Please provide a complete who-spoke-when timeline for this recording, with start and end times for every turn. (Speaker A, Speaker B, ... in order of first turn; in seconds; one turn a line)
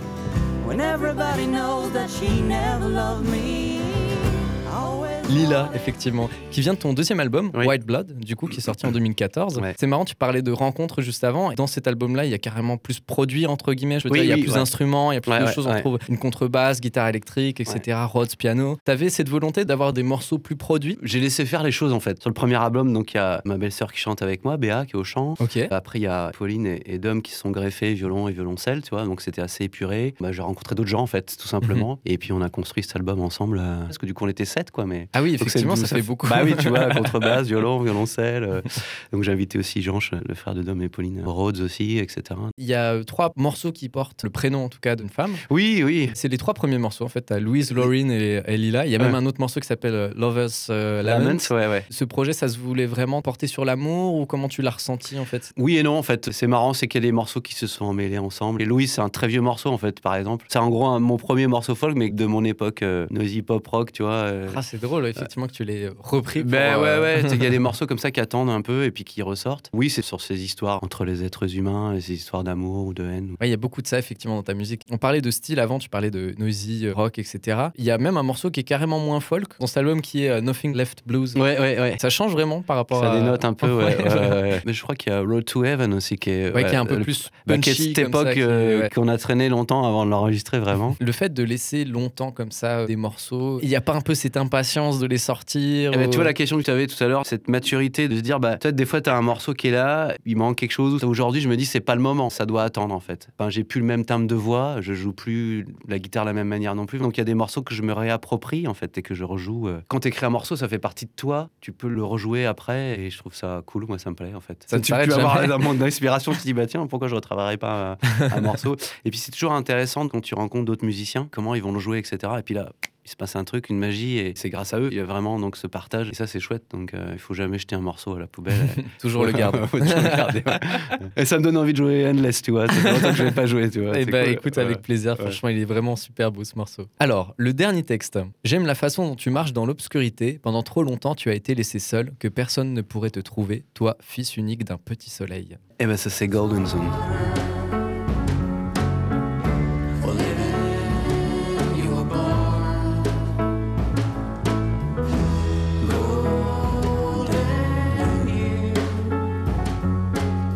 Speaker A: 0.6-5.7
Speaker B: 5.3-21.0
Speaker C: 8.5-8.9
Speaker C: 14.1-14.7
Speaker C: 15.2-15.9
Speaker C: 21.0-42.5
Speaker B: 25.4-25.7
Speaker B: 35.1-37.3
Speaker B: 42.6-45.4
Speaker C: 45.5-46.1
Speaker B: 46.1-55.5
Speaker C: 51.0-51.9
Speaker C: 55.5-64.6
Speaker B: 64.5-67.6
Speaker C: 66.4-73.4
Speaker B: 73.4-81.4
Speaker C: 81.3-82.0
Speaker B: 82.0-84.5
Speaker C: 82.9-91.0
Speaker B: 86.5-88.9
Speaker B: 91.0-96.3
Speaker C: 95.9-135.4
Speaker B: 114.7-115.6
Speaker B: 128.6-131.0
Speaker B: 132.7-133.3
Speaker B: 133.9-145.6
Speaker C: 145.8-147.3
Speaker A: 150.0-152.9
Speaker A: 155.8-158.8